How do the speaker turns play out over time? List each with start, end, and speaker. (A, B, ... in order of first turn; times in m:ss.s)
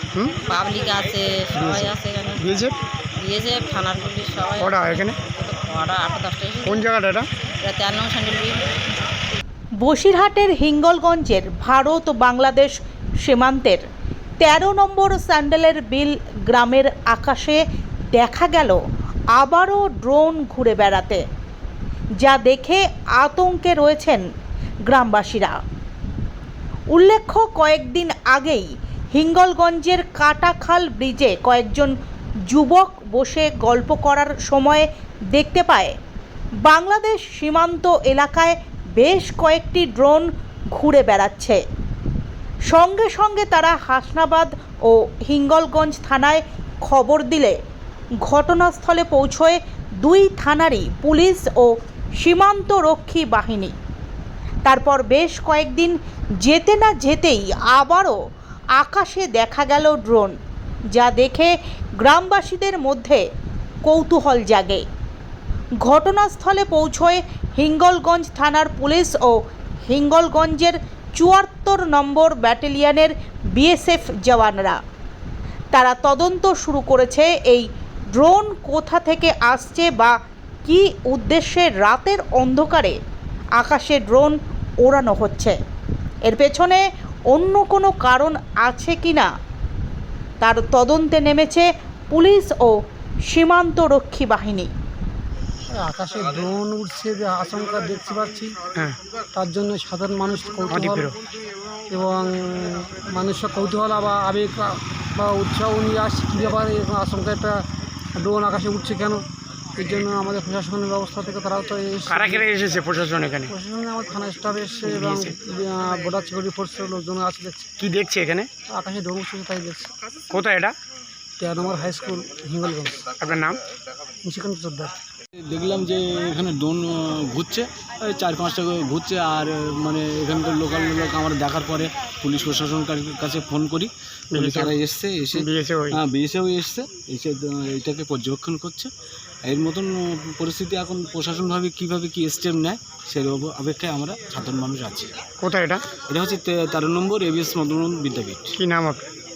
0:00.5-0:02.5 A
0:01.6-0:02.8 B
0:03.2-0:06.8 A
0:04.6-0:05.2 B
0:06.7-0:07.3 B
0:07.6-0:08.7 A
0:09.8-0:13.8 C
0:14.4-0:17.6 C
0:18.1-0:18.8 C
0:19.3-0:21.2 C
0:22.2-0:24.2 C
0:24.9-0:25.6 C
0:26.9-0:31.9 C
0:32.5-0:36.0 C
0:36.6-0:41.6 C
0:42.7-0:47.6 C
0:48.2-0:53.7 C
0:54.7-0:58.2 C
0:58.8-1:00.3 C
1:00.9-1:03.2 C
1:03.9-1:04.8 C
1:05.8-1:09.3 C
1:09.9-1:14.8 C
1:15.7-1:20.1 C
1:20.7-1:22.9 C
1:23.6-1:25.6 C
1:26.3-1:29.3 C
1:30.4-1:32.7 C
1:33.3-1:34.7 C
1:35.7-1:38.6 D
1:39.3-1:41.1 D
1:40.7-1:41.1 B
1:41.9-1:49.2 D
1:49.8-1:52.5 D
1:52.1-1:53.5 B
1:53.5-1:57.8 D
1:54.9-1:55.4 B
1:57.8-1:58.5 B
1:58.7-1:59.9 D
2:00.3-2:00.7 B
2:01.4-2:03.1 D
2:03.2-2:03.6 B
2:04.2-2:05.0 D
2:05.5-2:18.9 E
2:14.3-2:14.7 B
2:15.3-2:16.0 B
2:19.5-2:25.1 E
2:25.4-2:25.8 B
2:26.1-2:28.6 E
2:28.6-2:29.0 B